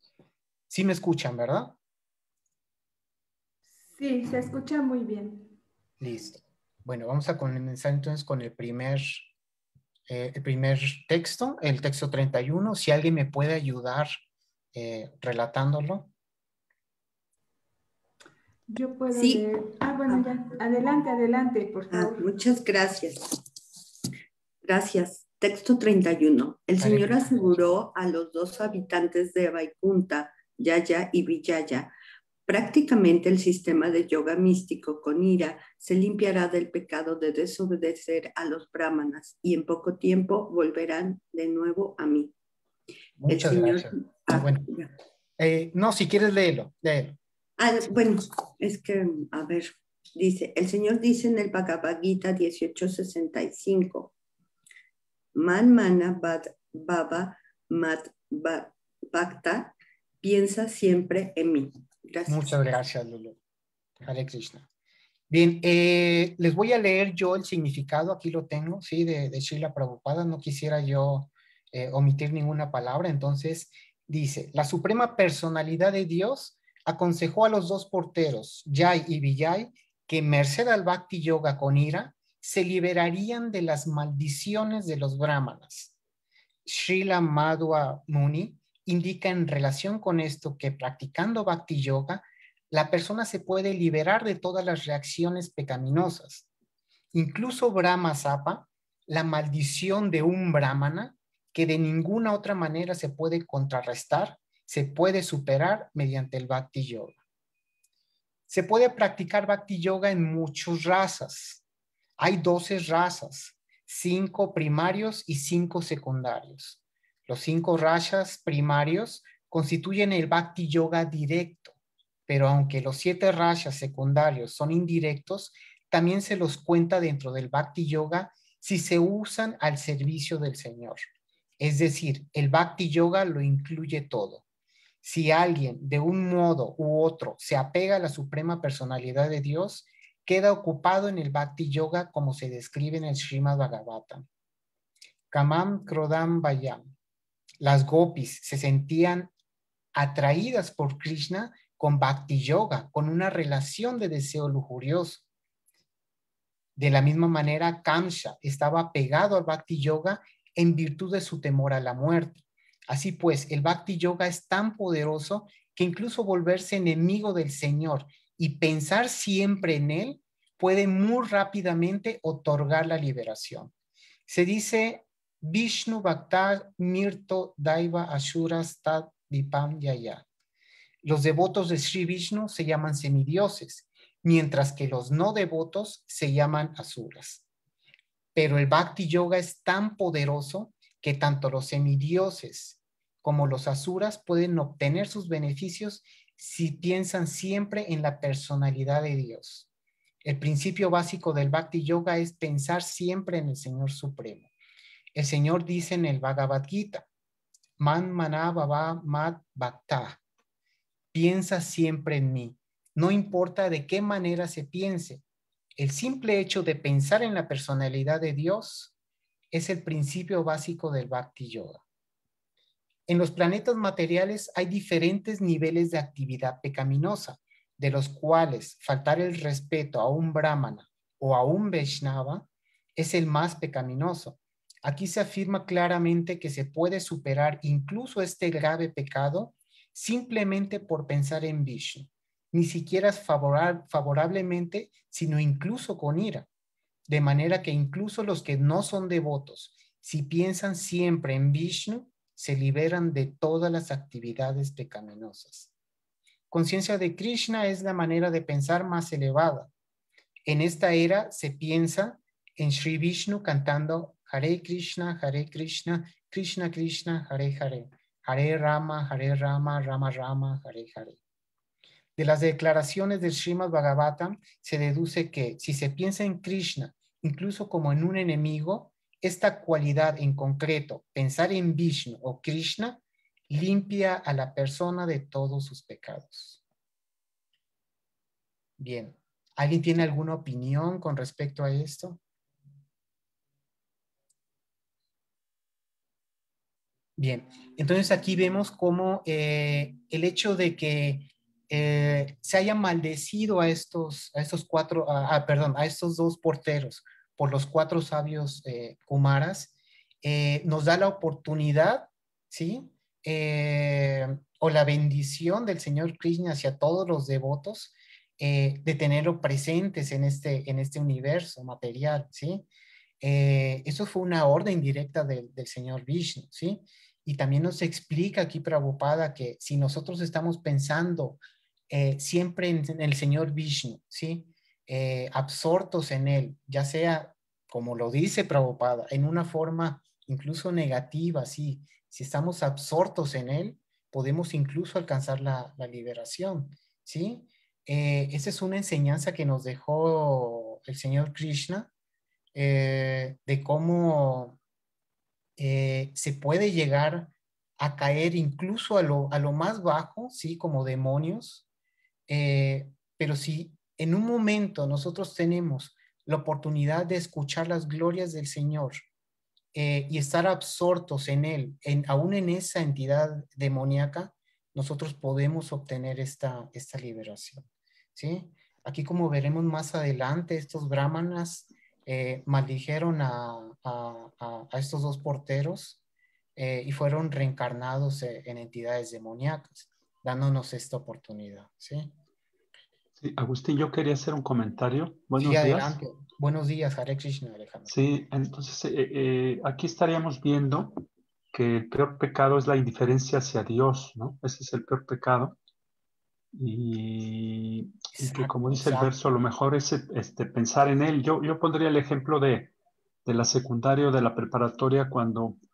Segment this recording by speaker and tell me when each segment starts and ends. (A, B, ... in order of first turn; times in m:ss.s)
0:00.7-0:01.8 A
0:03.9-0:05.6 B
0:06.0-0:09.3 A
0:10.1-0:14.1 A
0:14.7-0:16.1 A
0:18.7-0:22.3 B
0:19.1-0:19.5 C
0:21.9-0:23.2 C
0:24.6-0:31.9 C
0:26.8-0:27.7 A
0:32.5-0:42.3 C
0:43.2-0:44.7 A
0:43.3-0:44.9 C
0:45.4-0:47.2 A
0:47.6-0:54.1 C
0:55.3-1:02.6 C
1:02.3-1:03.4 A
1:04.0-1:04.6 A
1:05.3-1:25.9 A
1:26.6-1:36.5 A
1:37.1-1:47.2 A
1:48.5-1:51.6 A
1:52.2-2:01.7 A
2:02.3-2:11.0 A
2:11.6-2:14.4 A
2:15.0-2:24.2 A
2:25.3-2:26.9 A
2:27.6-2:29.3 A
2:29.9-2:35.2 A
2:36.8-2:53.7 A
2:54.3-3:00.2 A
3:01.0-3:07.4 A
3:08.3-3:19.7 A
3:20.2-3:24.5 A
3:25.1-3:27.0 A
3:27.8-3:30.2 A
3:31.1-3:35.2 A
3:35.8-3:38.9 A
3:39.5-3:41.8 A
3:43.1-4:06.5 A
4:07.1-4:15.7 A
4:16.5-4:19.7 A
4:20.4-4:31.2 A
4:32.2-4:46.6 A
4:48.8-4:52.2 A
4:57.2-5:22.6 A
5:23.2-5:51.9 A
5:52.5-5:54.6 A
5:55.6-6:01.6 A
6:02.3-6:09.0 A
6:09.7-6:26.0 A
6:26.6-6:32.1 A
6:33.2-6:35.9 D
6:35.4-6:37.9 A
6:37.9-6:45.6 D
6:46.5-6:52.7 D
6:48.2-6:49.1 A
6:53.2-6:55.6 D